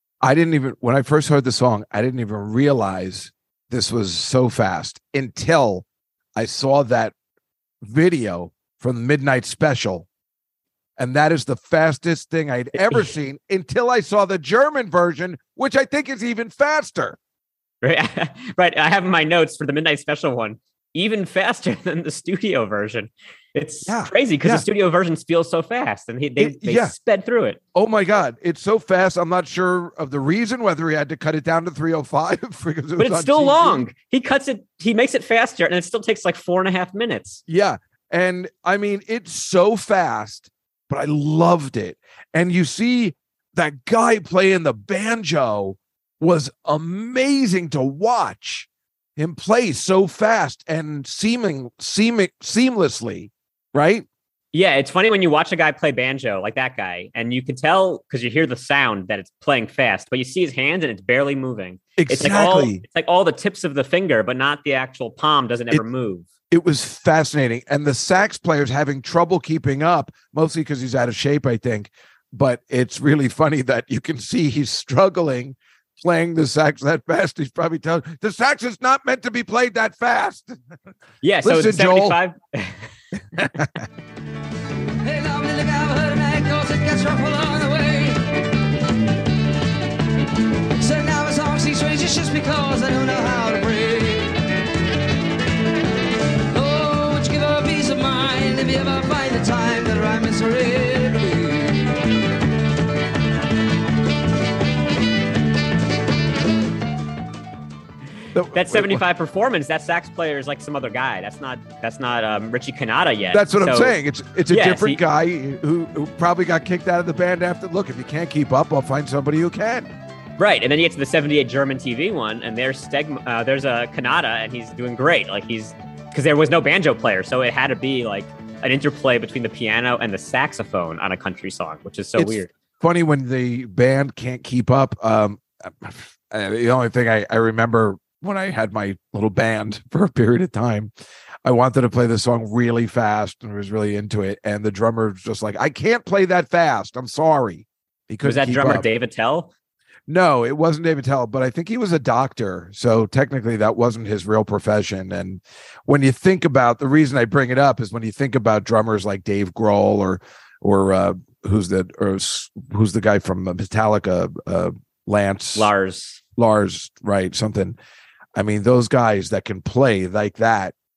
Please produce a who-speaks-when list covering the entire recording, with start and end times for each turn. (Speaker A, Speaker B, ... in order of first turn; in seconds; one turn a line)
Speaker A: 0.2-7.1
Speaker A: 7.8-10.1
Speaker A: 11.0-17.2
Speaker B: 12.8-13.1
Speaker B: 17.8-27.6
Speaker A: 23.9-24.7
Speaker A: 26.4-26.9
Speaker A: 27.7-33.8
Speaker B: 33.0-37.4
Speaker A: 37.5-54.1
Speaker B: 54.5-66.3
Speaker A: 62.0-62.8
Speaker A: 66.5-80.6
Speaker B: 81.2-82.9
Speaker A: 81.4-82.2
Speaker A: 83.4-83.9
Speaker C: 85.0-88.2
Speaker C: 90.8-94.4
Speaker C: 96.5-101.9
Speaker A: 108.3-109.0
Speaker B: 108.5-114.0
Speaker A: 113.3-119.9
Speaker B: 114.5-115.0
Speaker B: 120.4-132.5
Speaker A: 132.2-140.9
Speaker A: 141.4-148.8
Speaker B: 148.2-149.5
Speaker A: 150.1-165.7
Speaker B: 165.6-166.2
Speaker A: 166.4-167.8
Speaker A: 168.3-170.8